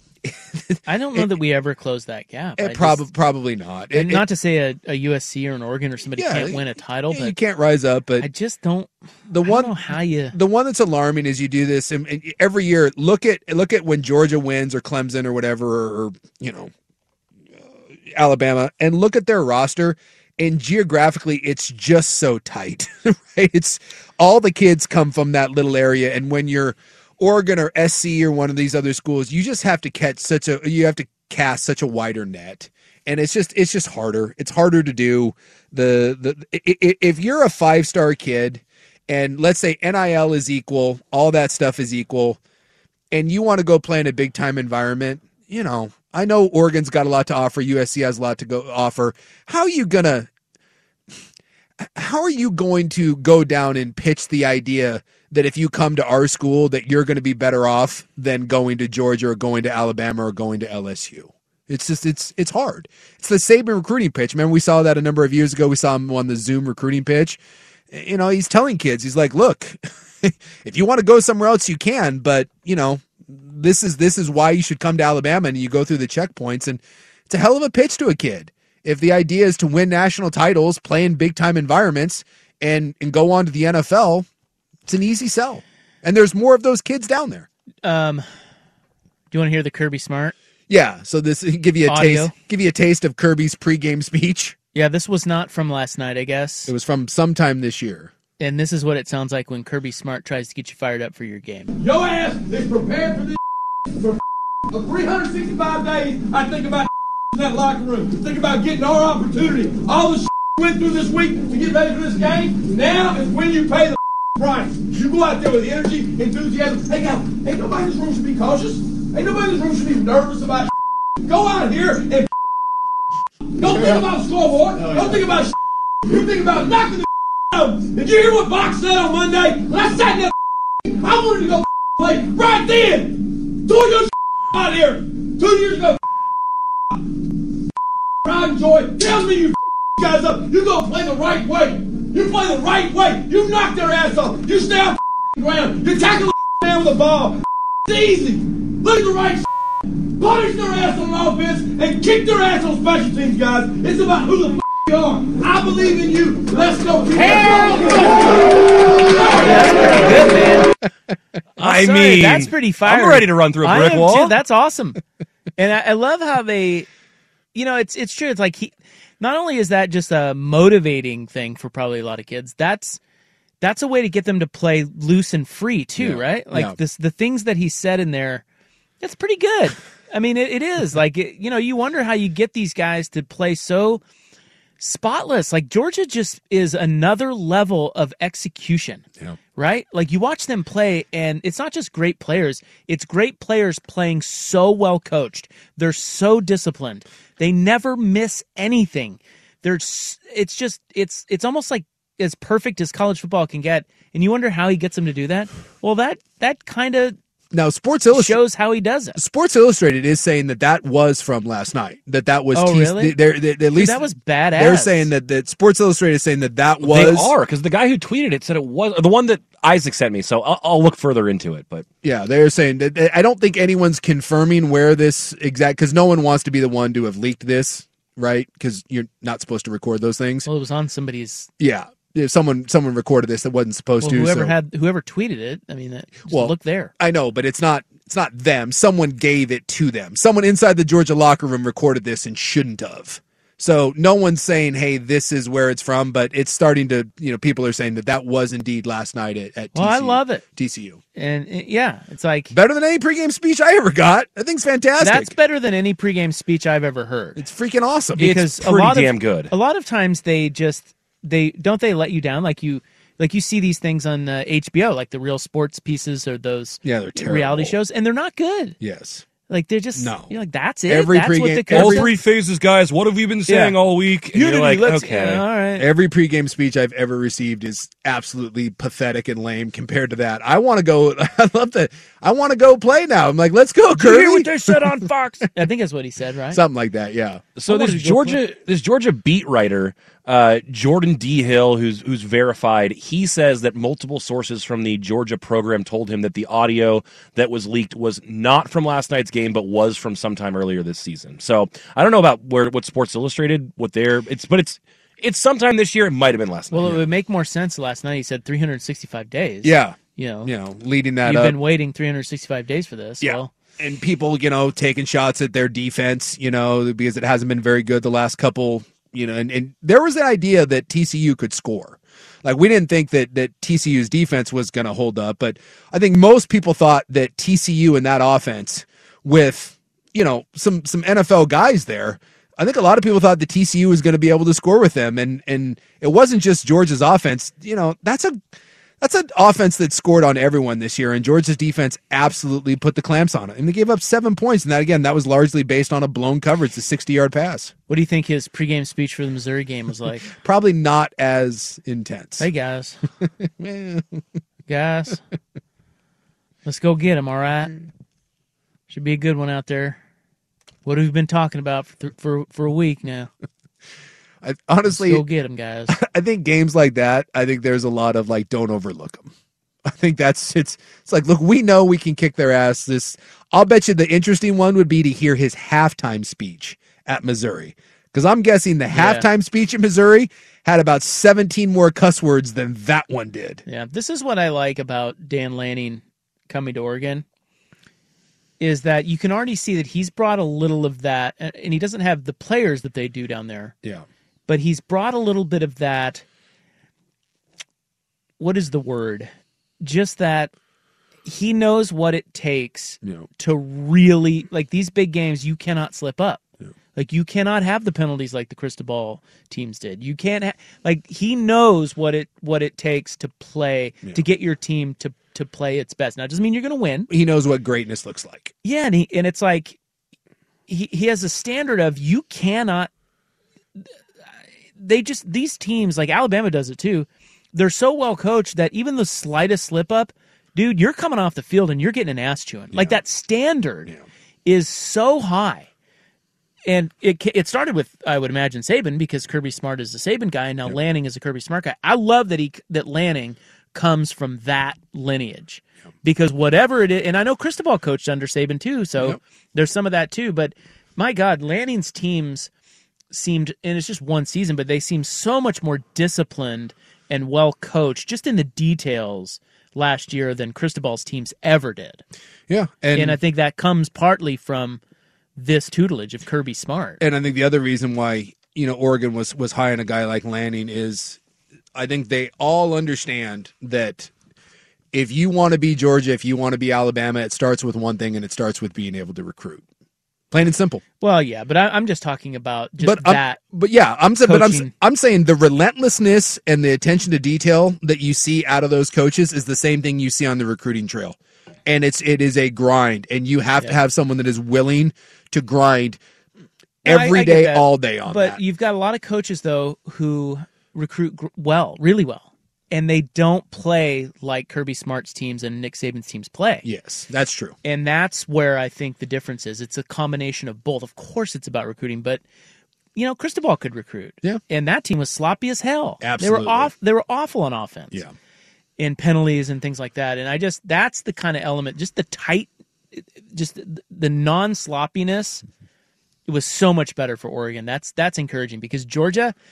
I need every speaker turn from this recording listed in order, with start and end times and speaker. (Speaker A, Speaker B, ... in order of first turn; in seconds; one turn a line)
Speaker A: 0.2-1.3
Speaker B: 0.8-3.0
Speaker A: 2.6-4.2
Speaker B: 3.9-7.3
Speaker A: 6.2-8.3
Speaker B: 8.2-10.3
Speaker A: 9.3-9.8
Speaker A: 10.3-16.7
Speaker A: 18.1-42.4
Speaker A: 43.1-50.3
Speaker A: 51.8-67.4
Speaker A: 67.9-84.2
Speaker A: 84.8-87.5
Speaker B: 87.8-88.2
Speaker B: 89.3-90.3
Speaker A: 90.7-94.5
Speaker B: 91.9-92.3
Speaker B: 94.7-96.7
Speaker A: 96.7-98.1
Speaker B: 98.4-101.7
Speaker C: 101.8-103.4
Speaker C: 103.9-104.2
Speaker C: 104.7-122.3
Speaker C: 123.5-125.5
Speaker C: 126.0-136.0
Speaker C: 136.9-137.5
Speaker C: 138.2-160.0
Speaker B: 159.4-160.7
Speaker D: 161.6-164.3
Speaker B: 161.6-165.0
Speaker B: 165.6-166.9
Speaker B: 167.5-173.0
Speaker B: 173.6-178.4
Speaker A: 176.0-176.8
Speaker B: 179.0-184.0
Speaker B: 184.8-189.0
Speaker B: 189.6-207.2
Speaker A: 207.5-208.4
Speaker B: 208.1-209.2
Speaker A: 209.2-214.0
Speaker B: 212.5-213.2
Speaker B: 213.7-215.1
Speaker A: 214.6-217.3
Speaker D: 216.8-221.8
Speaker A: 222.0-230.5
Speaker B: 230.4-231.5
Speaker A: 231.6-234.5
Speaker B: 234.0-236.9
Speaker A: 236.3-251.0
Speaker B: 249.7-250.4
Speaker B: 251.1-252.5
Speaker A: 252.5-255.3
Speaker B: 255.0-257.4
Speaker A: 257.4-258.3
Speaker B: 258.1-268.8
Speaker D: 258.2-259.5
Speaker A: 266.8-267.7
Speaker A: 268.8-269.2
Speaker B: 269.5-272.1
Speaker A: 269.9-270.3
Speaker A: 270.9-272.1
Speaker D: 271.7-275.4
Speaker B: 273.5-273.8
Speaker B: 274.3-275.9
Speaker A: 275.8-285.1
Speaker B: 283.9-286.6
Speaker A: 286.5-287.5
Speaker D: 287.6-306.9
Speaker B: 287.7-288.4
Speaker B: 306.7-310.5
Speaker A: 309.6-311.6
Speaker B: 311.2-313.5
Speaker A: 313.2-338.4
Speaker A: 339.0-347.7
Speaker B: 347.9-350.3
Speaker A: 350.3-352.5
Speaker B: 352.4-353.0
Speaker A: 353.3-354.2
Speaker B: 354.7-355.2
Speaker B: 356.6-357.7
Speaker B: 358.9-360.0
Speaker B: 360.8-363.3
Speaker A: 364.4-365.2
Speaker B: 364.9-366.0
Speaker A: 365.9-369.3
Speaker A: 369.9-383.6
Speaker B: 378.9-379.3
Speaker B: 383.7-387.2
Speaker B: 388.6-393.7
Speaker B: 394.5-396.2
Speaker B: 398.4-399.3
Speaker B: 399.8-400.5
Speaker B: 401.2-406.4
Speaker A: 403.0-403.3
Speaker B: 406.9-417.1
Speaker A: 417.1-418.5
Speaker B: 418.6-419.8
Speaker B: 420.7-422.9
Speaker B: 424.8-433.9
Speaker A: 432.7-433.0
Speaker B: 434.4-435.7
Speaker B: 436.7-452.5
Speaker B: 453.1-462.0
Speaker A: 462.5-463.2
Speaker B: 462.9-464.8
Speaker B: 465.4-467.0
Speaker A: 467.0-471.2
Speaker A: 471.7-474.1
Speaker A: 474.9-479.6
Speaker A: 480.3-480.8
Speaker B: 481.0-483.4
Speaker A: 482.8-496.0
Speaker B: 484.2-484.7
Speaker A: 496.8-498.4
Speaker B: 496.8-506.6
Speaker A: 506.6-507.6
Speaker B: 507.6-512.2
Speaker B: 512.9-518.0
Speaker A: 516.0-516.7
Speaker B: 518.8-525.4
Speaker B: 526.3-529.3